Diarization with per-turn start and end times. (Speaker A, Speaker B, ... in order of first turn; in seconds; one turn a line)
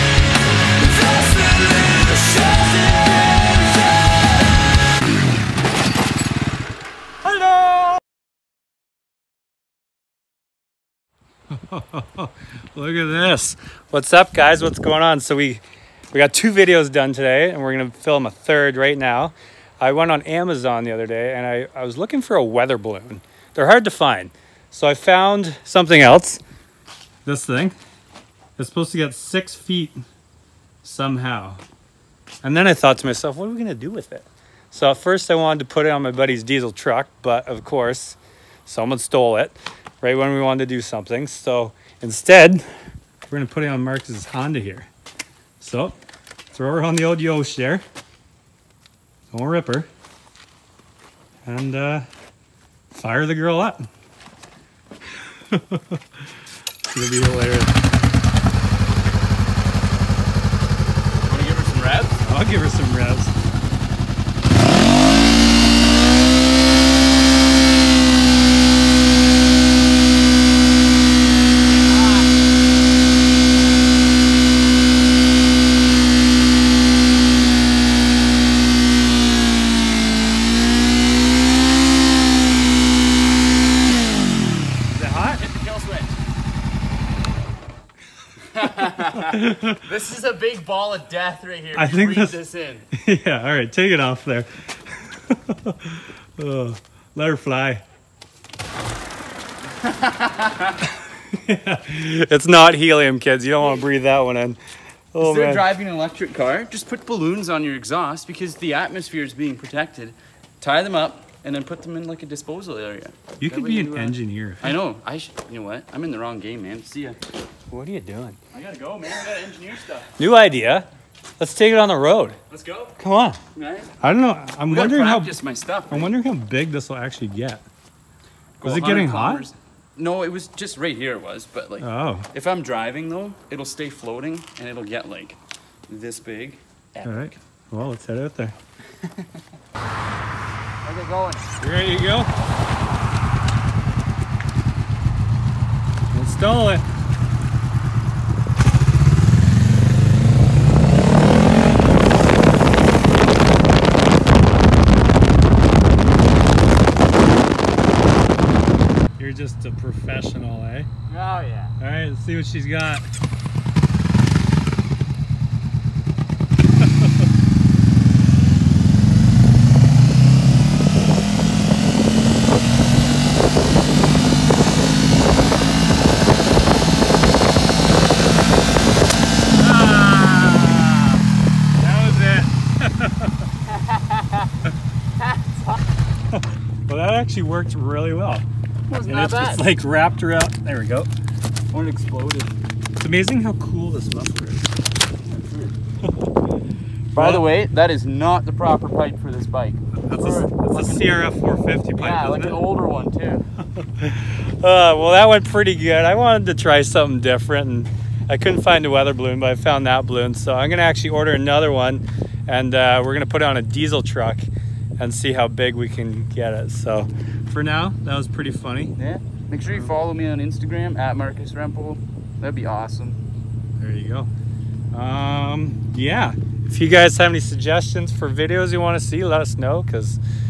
Speaker A: 1.0-3.8
Speaker B: 7.2-8.0
Speaker B: 11.5-26.4
Speaker B: 27.2-27.7
Speaker B: 28.6-30.0
Speaker B: 30.8-31.6
Speaker B: 32.4-42.6
Speaker B: 43.3-44.9
Speaker B: 45.6-46.0
Speaker B: 46.5-47.8
Speaker B: 49.3-49.9
Speaker B: 51.4-52.0
Speaker B: 52.9-53.9
Speaker B: 55.5-56.0
Speaker B: 56.9-57.7
Speaker A: 61.2-62.2
Speaker B: 62.3-63.3
Speaker B: 84.9-85.4
Speaker A: 85.3-86.2
Speaker A: 88.4-92.8
Speaker B: 89.2-89.8
Speaker B: 91.8-92.4
Speaker B: 92.9-97.8
Speaker A: 99.8-100.7
Speaker B: 100.8-104.6
Speaker A: 103.6-103.8
Speaker B: 105.1-105.7
Speaker A: 105.2-117.2
Speaker B: 113.4-114.8
Speaker B: 117.7-118.4
Speaker A: 118.5-120.1
Speaker B: 120.2-120.9
Speaker B: 121.4-122.4
Speaker A: 122.5-122.9
Speaker B: 123.0-123.4
Speaker A: 123.5-123.9
Speaker B: 124.0-125.3
Speaker A: 124.7-126.1
Speaker B: 125.9-127.6
Speaker A: 128.6-137.3
Speaker B: 128.6-129.4
Speaker B: 131.8-132.3
Speaker B: 137.0-138.5
Speaker A: 138.9-139.4
Speaker A: 140.8-141.5
Speaker B: 141.6-142.3
Speaker B: 146.1-146.8
Speaker B: 159.2-160.9
Speaker A: 161.1-161.7
Speaker B: 161.8-163.1
Speaker B: 179.6-181.2
Speaker B: 181.8-183.5
Speaker A: 183.7-184.5
Speaker B: 186.3-188.4
Speaker A: 188.9-189.7
Speaker B: 189.0-191.1
Speaker A: 191.7-192.6
Speaker B: 193.0-194.7
Speaker A: 195.3-195.8
Speaker B: 196.0-196.3
Speaker A: 197.1-201.1
Speaker B: 197.2-197.4
Speaker B: 200.1-202.6
Speaker A: 202.0-203.4
Speaker B: 203.8-214.5
Speaker B: 215.0-218.9
Speaker A: 219.0-223.2
Speaker B: 219.7-219.9
Speaker B: 223.8-224.3
Speaker B: 224.9-230.2